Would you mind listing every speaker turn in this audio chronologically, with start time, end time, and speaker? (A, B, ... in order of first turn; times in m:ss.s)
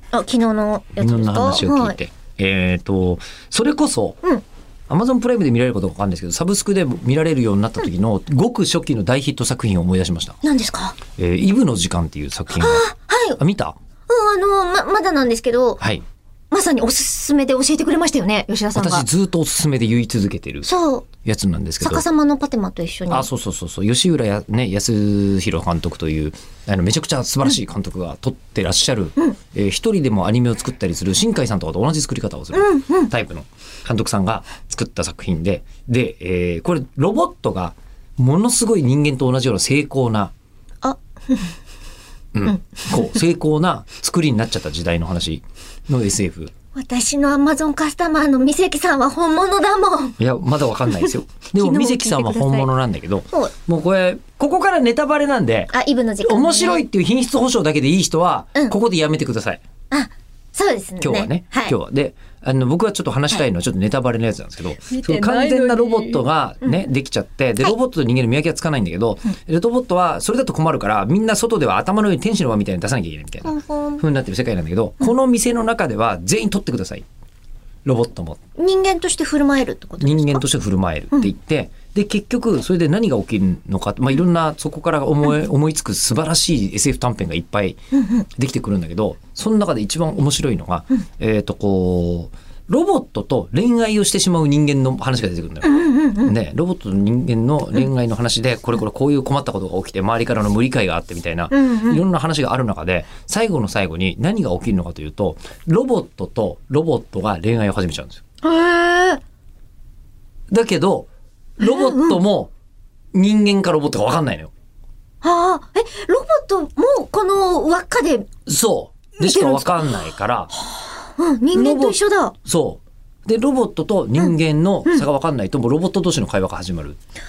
0:00.1-0:02.0 A
0:01.0-0:04.2 B
0:04.9-0:10.4 B
0:10.4-0:11.0 A
0:11.1-0:13.8 B
0:12.6-0:13.4 A
0:14.1-0:15.8 A
0:16.5-0:19.0 A
0:18.7-0:22.0 B
0:20.6-0:21.1 A
0:21.8-0:23.3 A
0:23.1-0:40.3 B
0:32.5-0:33.1 A
0:40.8-0:41.5 A
0:42.3-0:46.5 B
0:46.7-0:50.2 A
0:50.2-0:59.6 B
0:51.6-0:52.7 A
0:55.7-0:56.8 A
0:59.9-1:01.7 A
1:01.0-1:17.0 B
1:13.4-1:14.0 A
1:17.8-1:18.4 B
1:18.6-1:20.4 A
1:20.0-1:48.2 B
1:35.6-1:36.3 A
1:41.5-1:42.0 A
1:48.4-1:49.2 A
1:50.5-1:52.5 B
1:51.6-1:52.2 A
1:53.1-1:54.5 B
1:55.2-1:58.3 A
1:58.4-2:00.5 B
1:59.2-1:59.9 A
2:00.7-2:02.3 A
2:01.5-2:07.0 B